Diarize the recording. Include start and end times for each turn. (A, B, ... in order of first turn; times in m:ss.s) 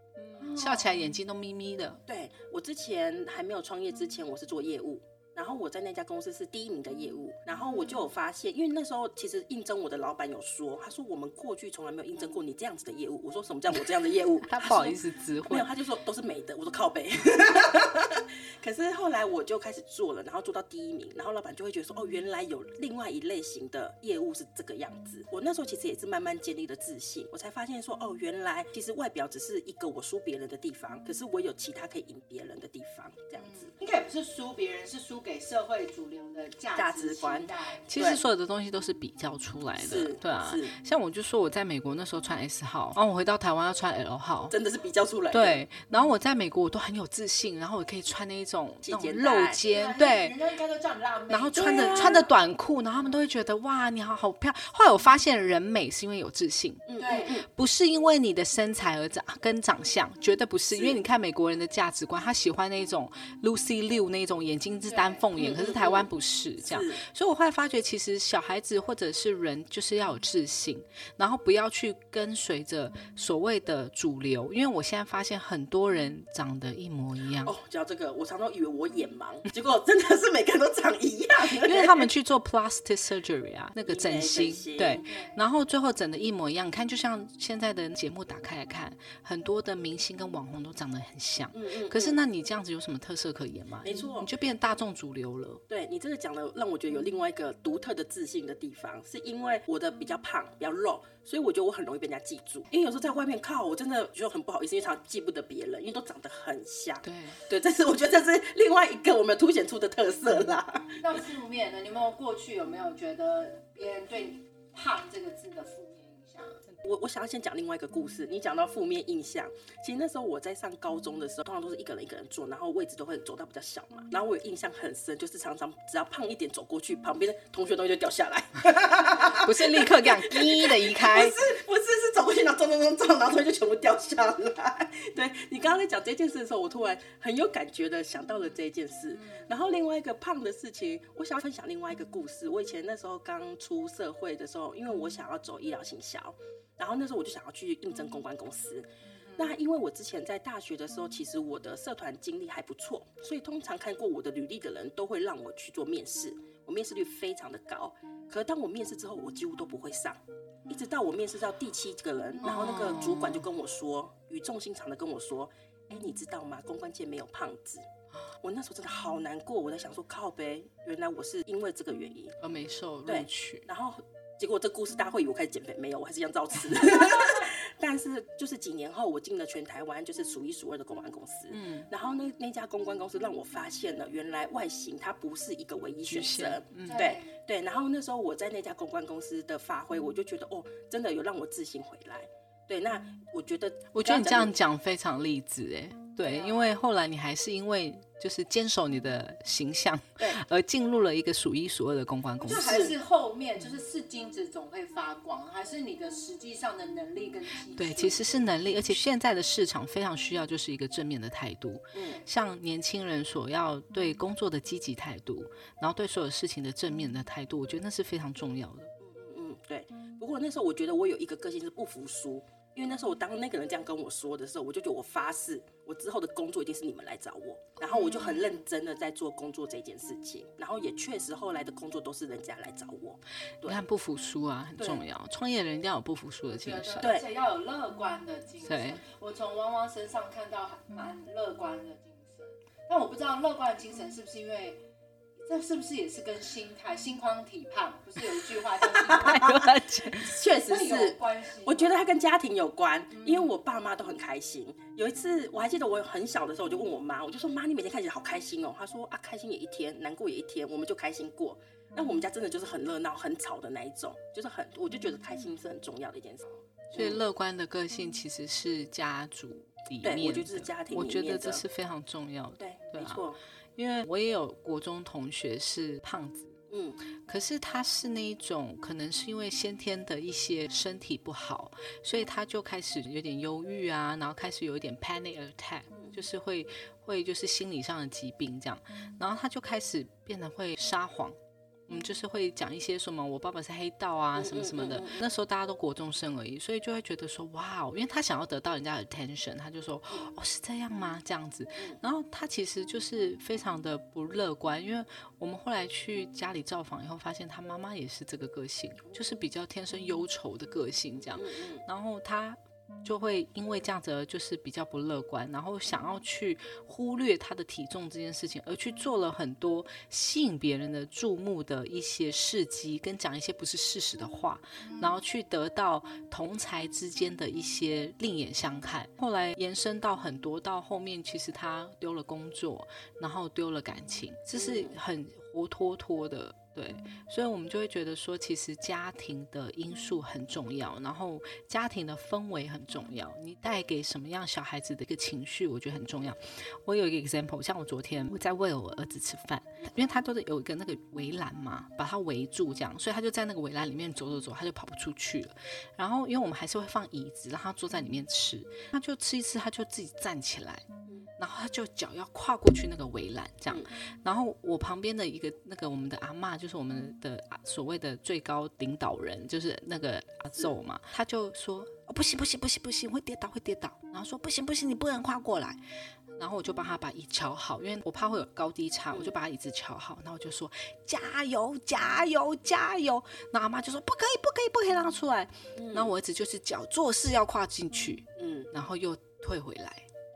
0:00.2-0:02.0 A
0:00.4-0:00.9 B
0:02.1-0:33.7 C
0:14.4-0:15.7 A
0:33.4-0:37.9 B
0:36.7-0:38.2 C
0:37.9-0:44.5 A
0:39.8-0:40.7 C
0:44.5-0:45.6 C
0:45.3-0:50.4 A
0:48.8-0:49.6 C
0:49.6-0:52.2 B
0:51.3-1:17.5 A
0:51.5-0:52.3 C
0:56.9-0:57.5 C
0:57.0-0:57.4 B
1:00.7-1:01.0 C
1:04.9-1:05.2 B
1:05.3-1:07.0 C
1:17.4-1:22.1 C
1:21.5-1:35.6 A
1:23.8-1:25.0 C
1:25.0-1:25.3 B
1:31.5-1:32.2 C
1:33.8-1:34.3 C
1:35.7-1:51.0 C
1:47.0-1:47.4 A
1:51.0-1:56.6 B
1:56.8-2:47.9 C
2:09.2-2:11.4 A
2:29.1-2:29.5 B
2:42.4-2:43.5 A
2:48.4-2:52.4 C
2:52.4-2:53.7 A
2:53.0-3:14.6 C
3:01.5-3:01.9 A
3:06.0-3:07.1 A
3:06.8-3:07.3 B
3:13.9-3:22.9 A
3:16.2-3:16.7 B
3:22.4-3:28.5 B
3:22.6-3:23.0 C
3:27.7-3:38.9 A
3:31.9-3:32.2 C
3:39.0-3:53.8 C
3:47.9-3:48.4 B
3:53.6-3:57.1 A
3:54.8-3:55.0 C
3:56.5-4:04.8 B
3:57.0-3:57.3 C
3:58.6-3:59.0 A
4:05.4-4:09.6 B
4:09.1-4:10.4 A
4:09.2-4:09.6 C
4:10.2-4:27.2 C
4:10.6-4:12.1 B
4:26.9-4:33.2 A
4:30.0-4:31.6 C
4:32.6-4:33.4 C
4:33.8-4:36.6 A
4:36.7-4:37.0 C
4:37.3-6:00.8 A
4:54.3-4:55.2 C
5:11.3-5:11.8 C
5:34.5-5:35.0 C
6:01.4-6:15.8 A
6:16.4-6:30.0 A
6:25.8-6:26.1 C
6:28.4-6:28.7 C